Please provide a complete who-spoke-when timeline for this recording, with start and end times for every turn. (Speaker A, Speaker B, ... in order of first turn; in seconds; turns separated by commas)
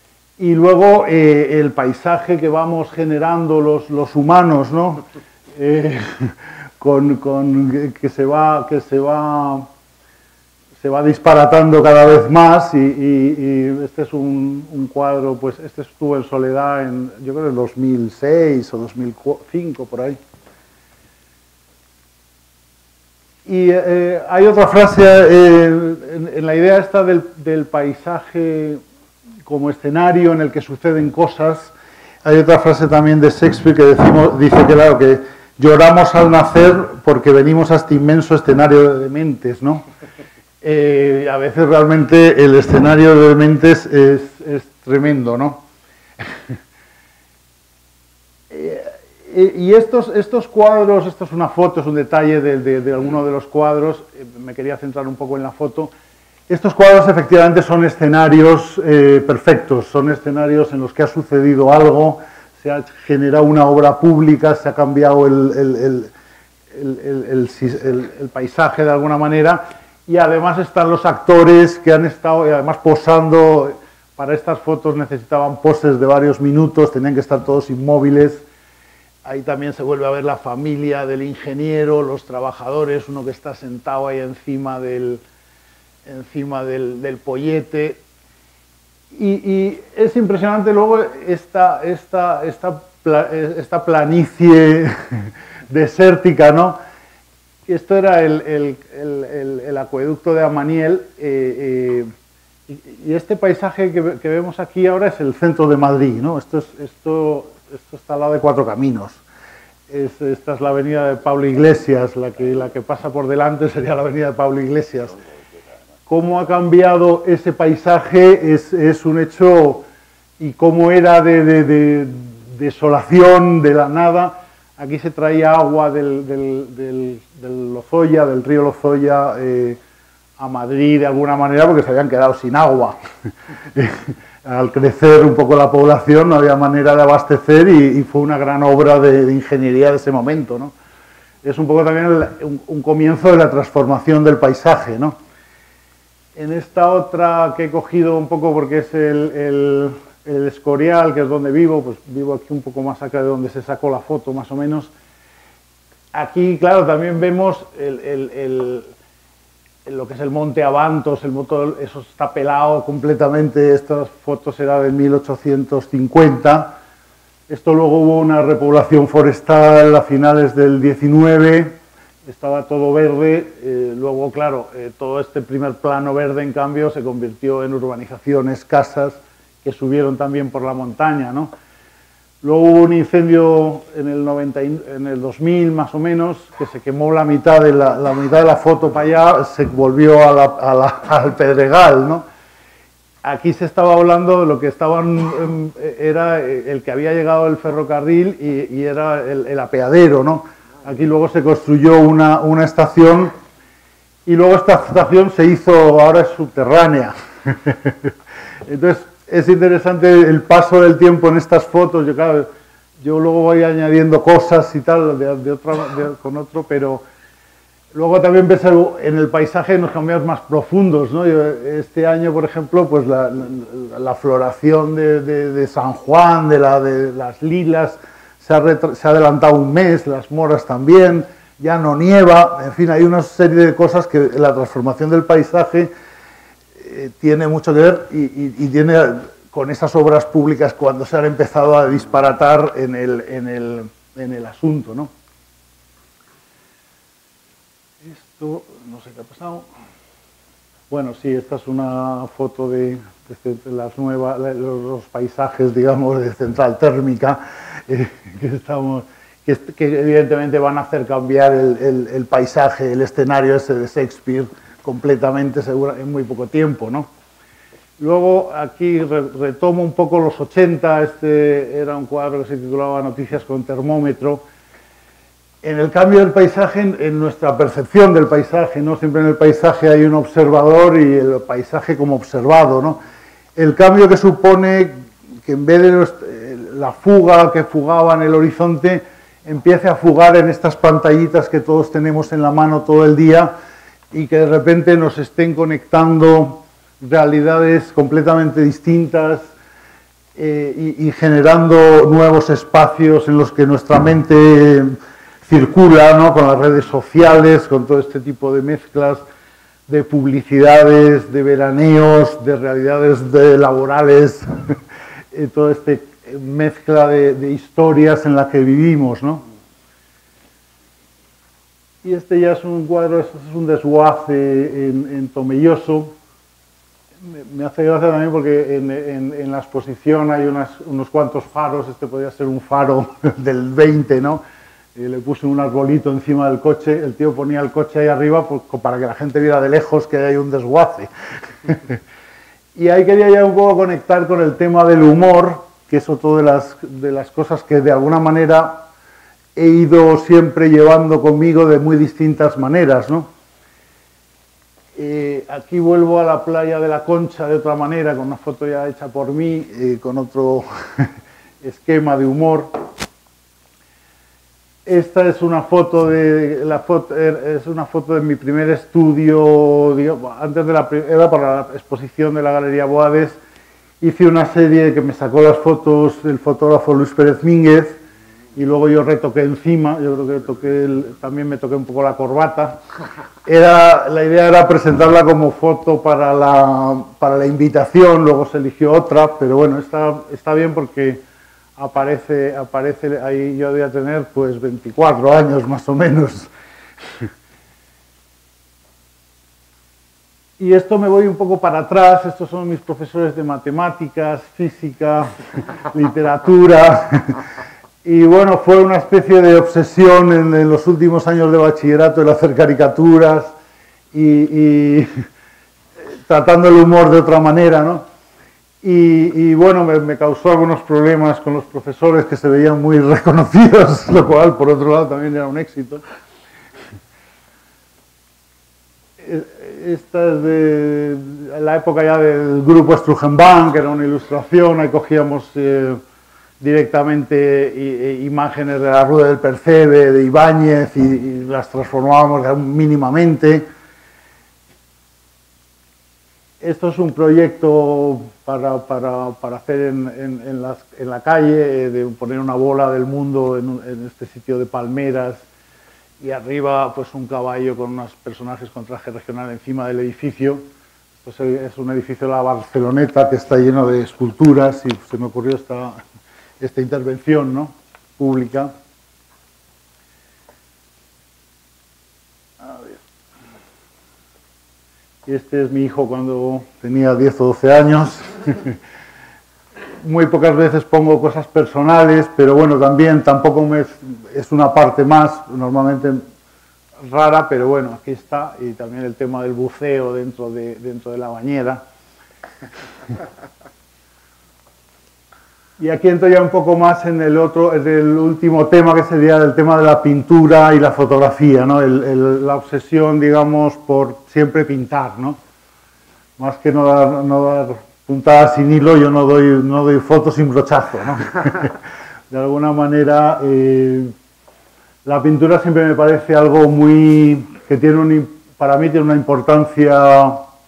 Speaker A: 0.4-5.0, Speaker A: 5.5-9.7, Speaker A: 10.8-20.2, Speaker A: 23.5-28.8, Speaker A: 29.4-39.8, Speaker A: 40.6-45.6, Speaker A: 46.2-46.6, Speaker A: 48.5-55.9, Speaker A: 56.5-66.1, Speaker A: 66.7-78.5, Speaker A: 79.2-85.2, Speaker A: 86.0-88.0, Speaker A: 89.1-96.8, Speaker A: 97.7-102.1, Speaker A: 102.7-109.2, Speaker A: 109.9-115.2, Speaker A: 116.1-119.9, Speaker A: 120.4-129.8, Speaker A: 130.4-133.0, Speaker A: 133.7-140.7, Speaker A: 141.4-145.2, Speaker A: 146.4-154.9, Speaker A: 156.1-158.9, Speaker A: 159.9-166.8, Speaker A: 167.5-181.5, Speaker A: 182.4-192.3, Speaker A: 193.2-203.3, Speaker A: 204.3-208.1, Speaker A: 208.7-217.0, Speaker A: 217.9-235.9, Speaker A: 236.8-245.1, Speaker A: 248.0-249.7, Speaker A: 250.9-267.1, Speaker A: 268.0-274.4, Speaker A: 275.6-283.0, Speaker A: 283.6-293.5, Speaker A: 294.1-299.5, Speaker A: 300.4-309.2, Speaker A: 309.9-314.8, Speaker A: 315.3-319.4, Speaker A: 322.0-326.1, Speaker A: 327.2-334.4, Speaker A: 334.9-342.0, Speaker A: 342.8-348.9, Speaker A: 349.6-353.3, Speaker A: 354.9-362.8, Speaker A: 364.9-373.4, Speaker A: 374.0-378.0, Speaker A: 378.6-382.8, Speaker A: 383.4-391.2, Speaker A: 391.8-396.5, Speaker A: 397.0-397.3, Speaker A: 400.6-407.5, Speaker A: 408.0-413.6, Speaker A: 414.1-415.1, Speaker A: 416.0-418.1, Speaker A: 418.8-426.0, Speaker A: 429.2-436.0, Speaker A: 436.6-443.7, Speaker A: 446.6-455.5, Speaker A: 456.2-460.6, Speaker A: 461.2-466.0, Speaker A: 466.6-468.7, Speaker A: 472.6-473.0, Speaker A: 475.3-478.8, Speaker A: 480.0-486.2, Speaker A: 487.0-491.8, Speaker A: 495.8-505.4, Speaker A: 506.4-511.8, Speaker A: 512.3-514.1, Speaker A: 515.0-520.5